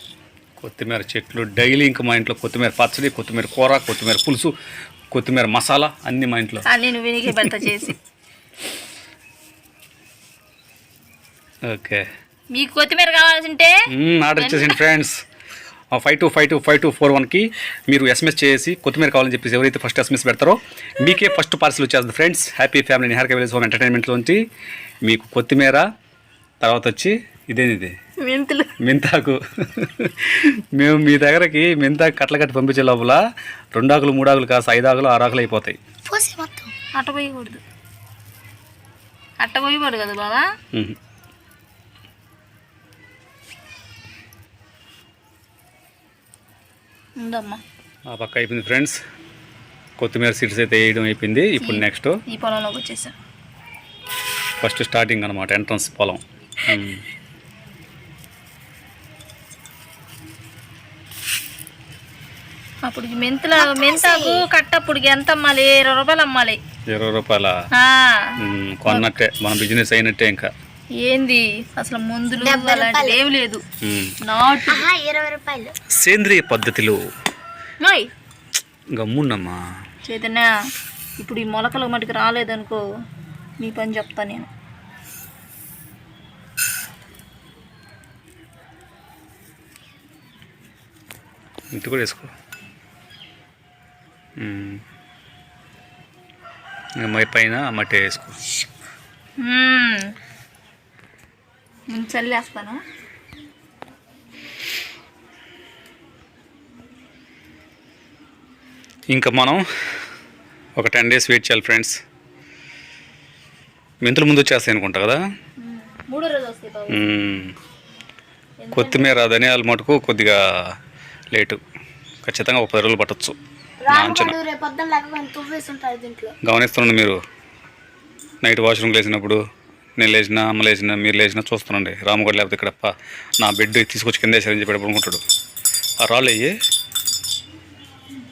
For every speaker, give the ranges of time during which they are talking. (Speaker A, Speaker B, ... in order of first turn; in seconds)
Speaker A: 0.6-4.5, 5.1-6.6, 11.7-12.1, 13.9-15.2, 15.9-24.4, 25.0-25.9, 26.6-28.0, 28.8-33.2, 33.7-35.8, 48.1-49.0, 50.0-52.2, 54.6-57.0, 66.9-67.6, 68.4-70.5, 73.8-74.2, 75.9-77.1, 78.9-79.6, 91.7-92.3, 94.4-94.8, 97.0-98.4, 109.1-109.6, 110.8-112.0, 114.0-115.2, 116.9-117.5, 118.8-120.7, 121.3-121.6, 122.2-123.4, 123.9-124.4, 126.4-127.2, 128.4-129.4, 130.0-135.2, 136.0-136.6
Speaker B: 6.7-8.0, 12.5-13.7, 14.4-14.8, 28.2-28.7, 36.9-37.6, 39.4-40.5, 47.2-47.6, 51.6-53.1, 62.9-66.6, 67.7-68.3, 68.9-69.1, 71.0-73.6, 74.2-74.9, 77.8-78.1, 80.1-80.5, 81.2-82.8, 83.6-84.5, 99.4-100.1, 101.9-102.8, 115.6-117.1, 118.6-119.1
Speaker C: 36.1-36.7, 63.6-64.4, 72.4-73.2, 74.7-75.7, 123.8-126.3